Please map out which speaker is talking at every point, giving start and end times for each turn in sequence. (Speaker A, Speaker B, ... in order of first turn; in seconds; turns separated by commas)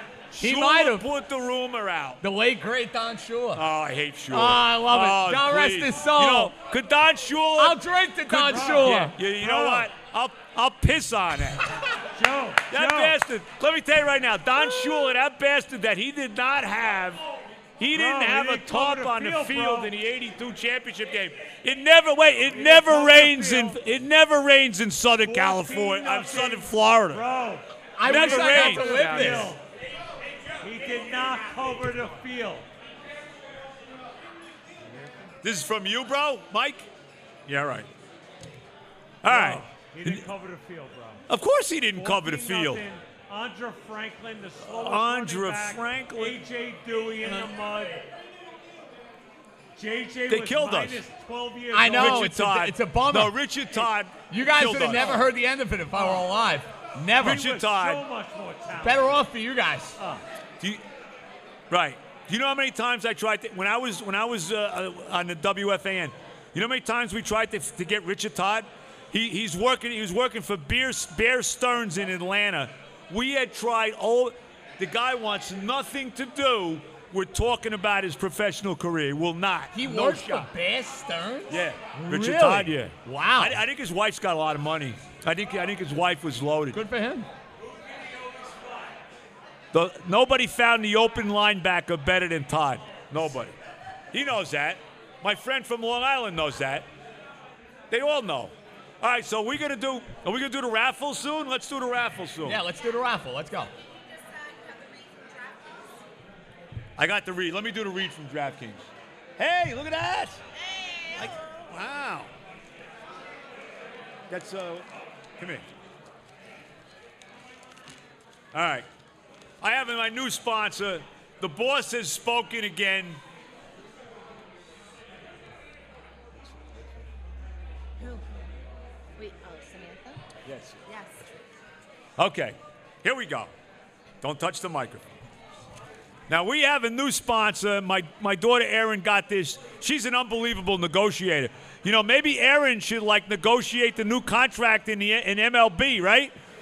Speaker A: 0.3-2.2, Speaker B: 0.4-1.1, Speaker B: 2.2-3.6, Speaker A: 3.5-7.8, Speaker B: 4.3-6.5, Speaker B: 7.6-9.1, Speaker C: 8.3-9.9, Speaker A: 8.5-11.7, Speaker C: 11.9-13.2, Speaker A: 12.7-17.2, Speaker A: 17.8-27.2, Speaker C: 17.9-19.9, Speaker C: 22.5-23.8, Speaker C: 25.2-29.6, Speaker B: 28.0-29.5, Speaker A: 28.0-29.5, Speaker C: 30.6-32.7, Speaker A: 35.4-36.9, Speaker A: 37.5-37.9, Speaker A: 39.2-40.2, Speaker C: 39.2-41.2, Speaker A: 41.3-42.8, Speaker C: 41.9-48.1, Speaker A: 44.7-46.4, Speaker C: 49.8-52.2, Speaker A: 50.3-51.0, Speaker B: 51.7-53.4, Speaker A: 51.9-55.3, Speaker B: 54.2-57.4, Speaker C: 55.9-56.2, Speaker A: 57.2-58.0, Speaker C: 57.2-59.2, Speaker B: 58.8-60.0, Speaker C: 60.0-60.2, Speaker A: 61.7-80.5, Speaker B: 79.7-83.6, Speaker A: 81.5-86.8, Speaker B: 86.7-87.3, Speaker A: 89.7-93.5, Speaker A: 94.1-96.9, Speaker A: 97.9-102.6, Speaker B: 102.4-103.7, Speaker D: 104.0-105.9, Speaker A: 107.0-110.4, Speaker D: 110.5-111.7, Speaker A: 111.2-112.3, Speaker A: 114.3-115.7, Speaker A: 118.5-118.9, Speaker A: 119.6-123.2, Speaker A: 126.4-126.8, Speaker D: 128.0-128.4, Speaker D: 129.2-130.2, Speaker A: 130.4-130.8, Speaker D: 130.9-131.2, Speaker A: 132.2-133.5, Speaker A: 134.2-135.2, Speaker A: 136.3-146.3